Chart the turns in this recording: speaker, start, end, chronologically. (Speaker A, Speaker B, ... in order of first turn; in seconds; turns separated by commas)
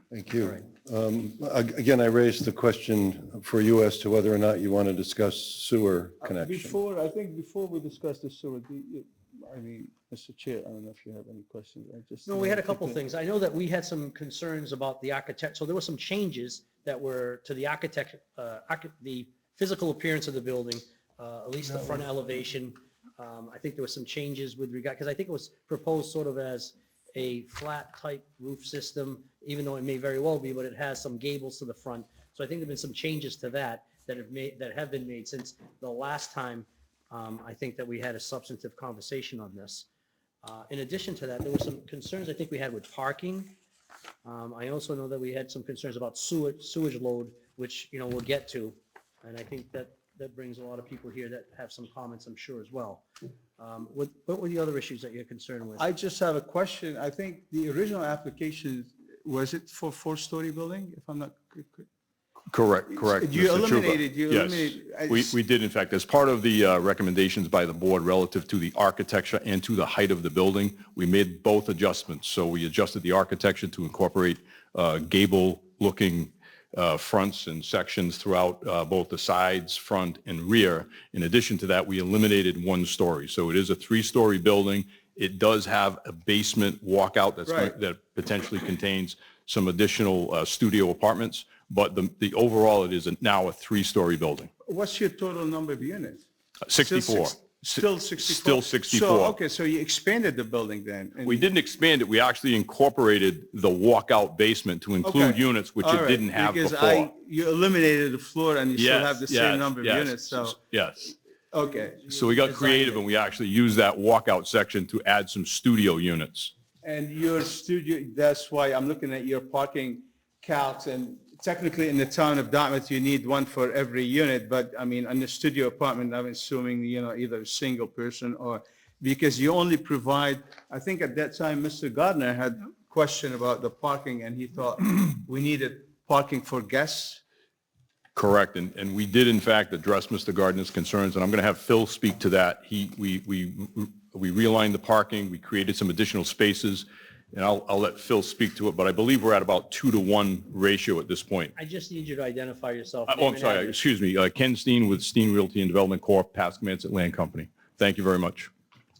Speaker A: 0.1-6.8, Speaker B: 6.2-13.0, Speaker C: 12.2-39.9, Speaker C: 40.4-43.5, Speaker C: 44.2-53.0, Speaker C: 53.6-55.9, Speaker B: 55.8-61.9, Speaker D: 62.5-94.5, Speaker B: 62.9-65.3, Speaker B: 87.5-87.7, Speaker B: 94.6-101.5, Speaker D: 96.7-99.4, Speaker D: 101.2-107.1, Speaker B: 105.0-110.6, Speaker D: 108.7-111.2, Speaker B: 111.5-113.0, Speaker D: 112.1-116.5, Speaker B: 116.8-137.2, Speaker D: 138.1-151.5, Speaker C: 151.6-153.8, Speaker D: 153.1-158.5